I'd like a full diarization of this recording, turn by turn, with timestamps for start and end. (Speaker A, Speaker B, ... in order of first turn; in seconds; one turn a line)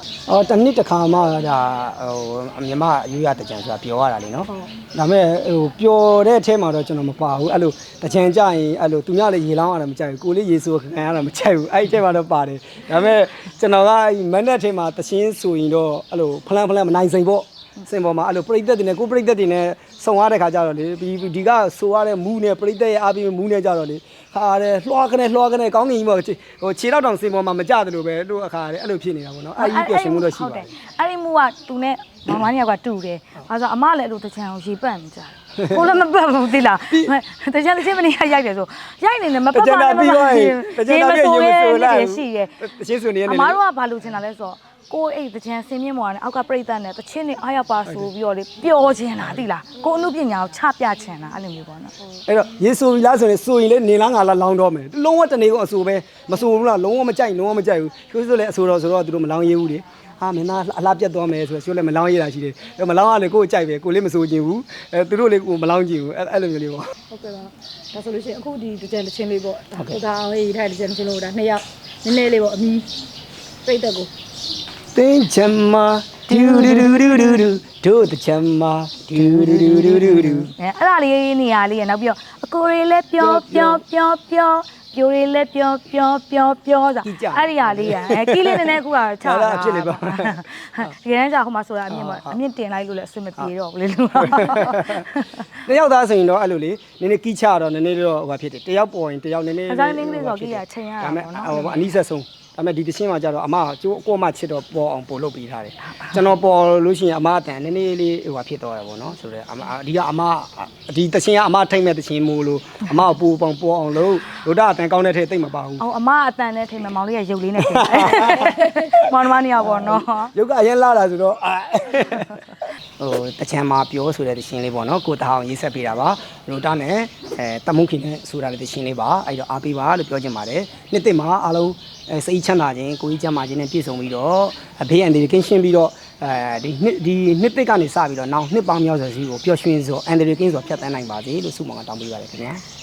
Speaker A: 0.3-30.7
Speaker B: 29.6-42.6
Speaker A: 36.9-37.1
Speaker A: 39.5-43.6
Speaker B: 43.2-51.9
Speaker A: 52.3-66.9
Speaker C: 67.1-72.9
Speaker C: 73.6-74.1
Speaker A: 74.9-80.5
Speaker B: 76.3-77.4
Speaker B: 79.6-95.6
Speaker A: 83.2-83.8
Speaker A: 87.0-90.9
Speaker A: 91.9-92.4
Speaker A: 94.2-115.8
Speaker B: 99.7-101.9
Speaker B: 115.8-120.3
Speaker A: 117.6-142.6